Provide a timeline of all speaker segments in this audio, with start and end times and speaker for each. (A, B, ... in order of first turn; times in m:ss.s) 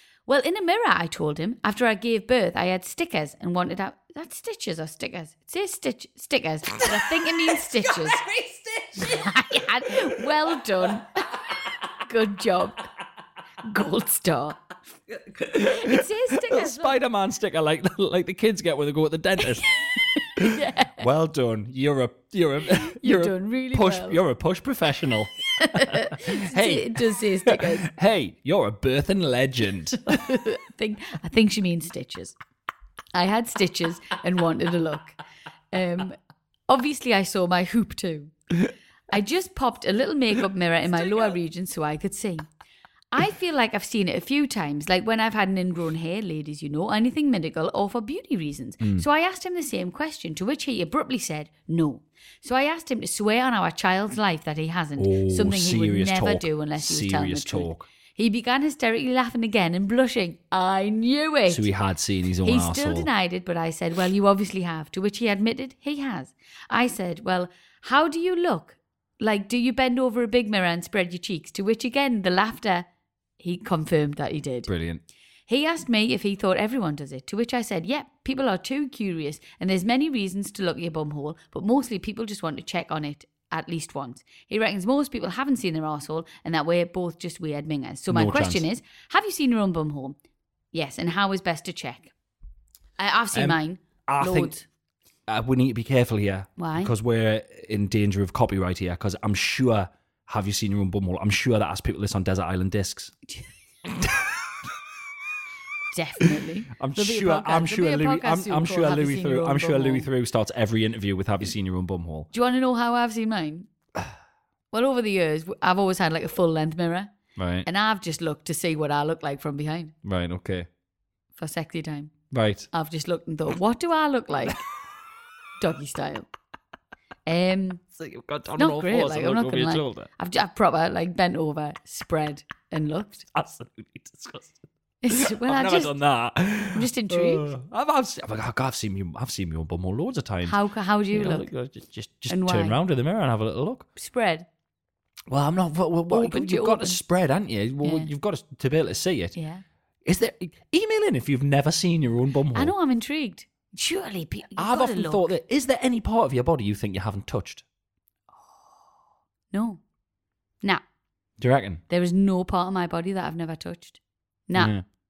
0:00.3-0:08.2 A
0:06.8-0:07.2 B
0:07.8-0:09.2 B
0:09.0-0:11.3 A
0:12.0-0:12.8 A
0:13.6-0:14.6 A
0:15.4-0:19.8 B
0:15.6-0:17.0 A
0:20.4-0:30.1 B
0:20.4-0:21.0 A
0:22.9-0:24.2 A
0:25.6-0:27.9 A
0:30.1-0:32.3 A
0:33.1-0:35.2 A
0:35.7-0:36.2 A
0:36.7-0:38.3 A
0:39.1-0:42.5 A
0:43.1-1:01.7 A
0:55.0-0:57.8 B
1:01.5-1:03.1 B
1:02.4-1:12.9 A
1:13.4-1:14.7 A
1:14.7-1:15.0 B
1:15.5-1:30.2 A
1:28.1-1:28.6 B
1:30.7-1:32.1 A
1:33.0-1:34.6 A
1:33.3-1:34.5 B
1:35.3-1:43.1 B
1:36.6-1:36.9 A
1:44.0-1:44.2 B
1:45.9-1:50.1 A
1:46.8-1:52.3 B
1:52.3-1:53.7 A
1:54.7-1:57.1 A
1:57.4-1:57.7 B
1:57.6-1:59.9 A
2:00.0-2:00.7 B
2:01.4-2:02.1 A
2:02.3-2:02.7 B
2:02.7-2:04.6 A
2:05.6-2:06.3 A
2:07.2-2:07.8 A
2:07.9-2:10.1 B
2:08.6-2:13.2 A
2:13.3-2:14.6 B
2:15.0-2:15.9 A
2:15.1-2:20.6 B
2:16.7-2:17.5 A
2:20.4-2:21.5 A
2:21.1-2:23.8 B
2:22.3-2:22.7 A
2:24.0-2:24.4 A
2:25.3-2:29.3 B
2:26.1-2:27.0 A
2:27.8-2:28.1 A
2:29.4-2:29.6 A
2:30.0-2:32.7 B
2:32.5-2:35.3 A
2:34.6-2:37.6 B
2:39.5-2:39.8 A
2:41.4-2:41.8 B
2:41.9-2:44.7 A
2:44.5-2:44.8 B